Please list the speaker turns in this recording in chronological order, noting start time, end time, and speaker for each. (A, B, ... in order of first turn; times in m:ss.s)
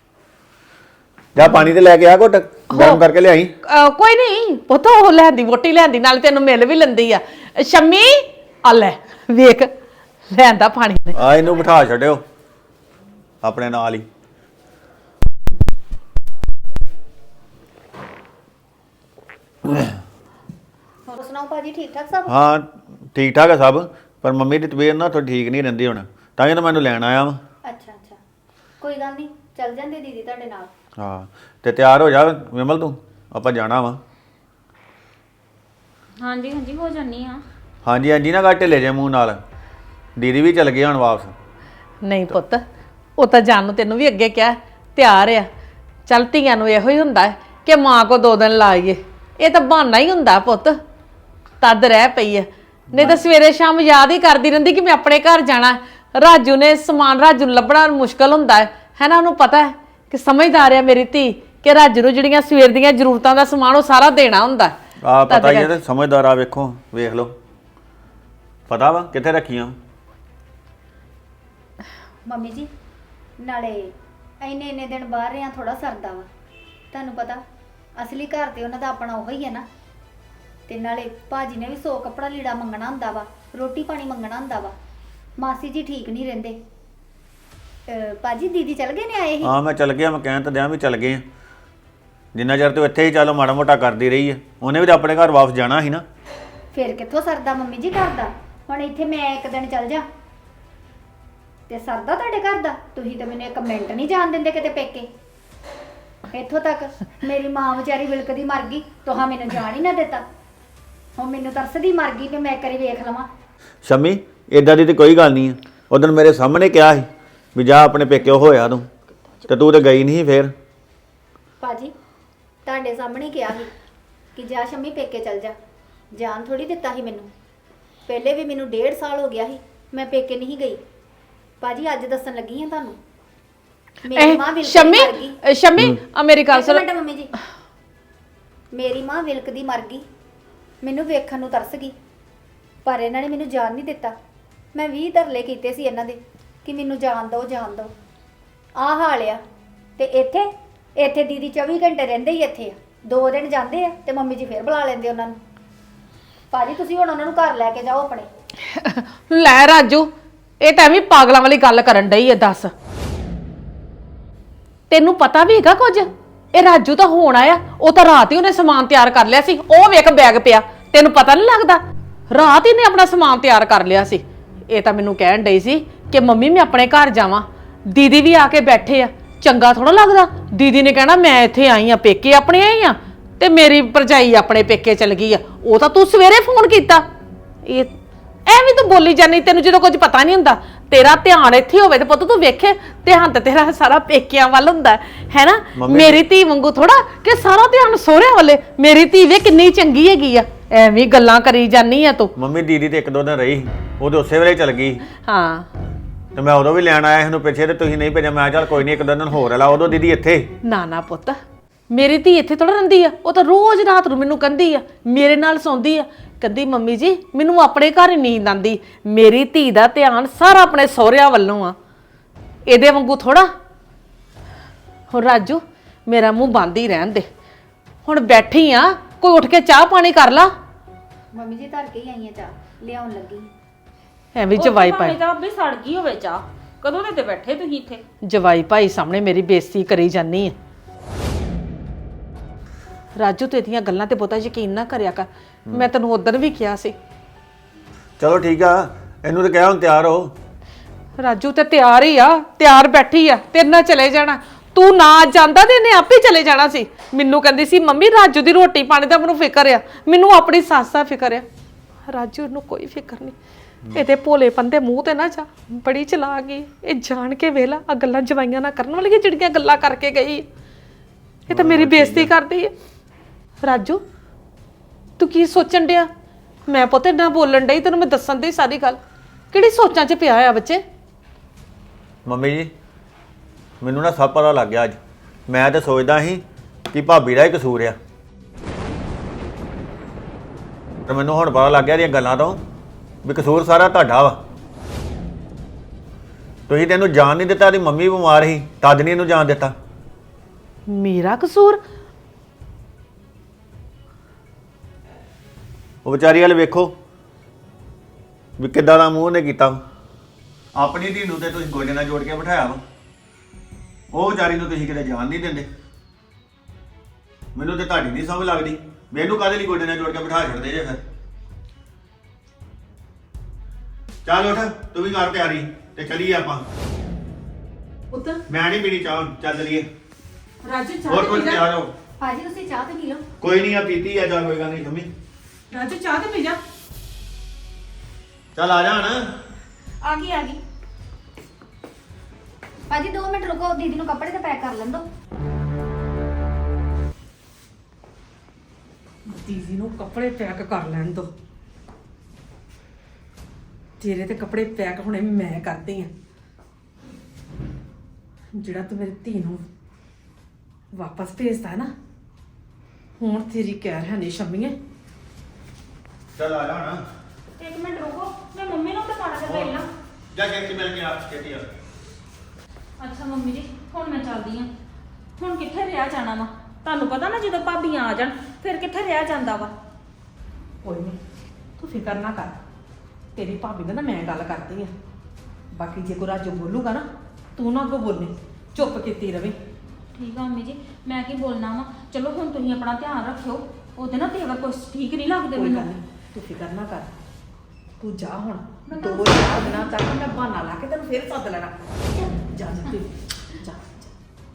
0:01.4-0:03.5 A
0:02.7-0:03.0 B
0:03.6-0:09.7 B
0:10.3-0:11.2 B
0:11.2-0:12.2 A
0:13.4-0:14.1 A
0:21.1-0:22.3 C
0:22.3-0:27.4 A
0:27.6-0:28.2 C
0:28.8-0:30.7 C
0:31.0-0:34.0 A
0:36.2-0:37.4 D
0:37.8-0:39.4 A
0:40.2-0:41.3 A
0:42.0-0:42.6 B
0:43.2-0:45.5 B
0:46.1-0:50.8 B
0:51.6-1:04.7 B
0:52.9-0:53.2 A
1:05.0-1:07.3 A
1:05.3-1:05.7 B
1:08.7-1:09.8 A
1:12.3-1:12.7 C
1:13.4-1:16.3 C
1:16.9-1:17.4 C
1:18.0-1:19.6 C
1:20.7-1:24.7 C
1:25.4-1:26.6 C
1:27.9-1:29.5 C
1:29.4-1:31.2 A
1:32.3-1:36.0 A
1:36.7-1:40.0 C
1:41.7-1:45.1 C
1:46.3-1:50.3 C
1:51.2-1:53.3 C
1:53.8-1:58.9 A
1:59.5-2:00.5 A
2:01.6-2:01.9 C
2:02.6-2:03.7 C
2:04.4-2:05.6 C
2:06.1-2:07.3 C
2:08.1-2:10.8 C
2:11.6-2:13.0 C
2:14.1-2:15.4 C
2:14.1-2:16.8 B
2:16.5-2:17.3 C
2:18.7-2:20.0 C
2:20.8-2:22.0 C
2:22.8-2:24.2 C
2:24.7-2:27.9 C
2:28.8-2:29.4 C
2:30.0-2:35.4 C
2:36.5-2:38.3 C
2:38.6-2:42.7 B
2:44.9-3:07.1 B
3:07.6-3:08.0 B
3:08.5-3:22.3 B
3:15.8-3:16.2 A
3:22.4-3:25.0 A
3:25.2-3:25.7 B
3:26.4-3:30.5 A
3:30.6-3:31.4 B
3:31.9-3:41.8 B
3:42.7-3:43.5 B
3:45.1-3:47.3 B
3:48.0-3:50.5 B
3:51.3-3:53.5 C
3:54.4-3:55.2 B
3:54.6-3:58.0 D
3:58.2-4:00.6 B
4:03.2-4:07.0 B
4:08.2-4:10.3 A
4:11.2-4:21.5 B
4:22.1-4:23.4 B
4:23.9-4:30.5 B
4:31.5-4:32.7 B
4:31.5-4:32.3 A
4:33.6-4:34.0 B
4:35.2-4:36.1 B
4:36.7-4:39.0 B
4:39.5-4:40.8 B
4:42.3-4:42.7 A
4:43.8-4:45.0 A
4:45.5-4:48.0 A
4:51.1-4:52.6 A
4:53.2-4:54.4 A
4:56.7-4:59.7 A
5:00.9-5:01.8 B
5:06.0-5:06.9 A
5:08.6-5:09.8 A
5:10.8-5:12.8 A
5:14.1-5:15.7 A
5:17.6-5:21.0 A
5:24.2-5:26.7 A
5:28.1-5:28.4 B
5:28.5-5:29.9 A
5:30.6-5:31.7 B
5:31.1-5:31.9 A
5:32.2-5:33.2 C
5:33.4-5:35.1 A
5:35.7-5:36.6 B
5:38.6-5:39.3 A
5:40.0-5:40.6 D
5:42.9-5:45.0 C
5:49.3-5:51.3 B
5:54.0-5:56.1 B
5:58.5-5:59.6 B
6:00.9-6:01.9 B
6:03.2-6:04.8 B
6:06.4-6:07.0 A
6:07.6-6:09.9 D
6:09.4-6:09.7 A
6:10.3-6:11.7 A
6:13.0-6:14.7 D
6:15.4-6:19.7 D
6:20.8-6:21.2 B
6:21.8-6:22.6 B
6:23.4-6:24.9 B
6:25.7-6:29.6 B
6:30.2-6:35.9 D
6:35.5-6:37.1 B
6:38.0-6:44.1 B
6:38.9-6:39.9 D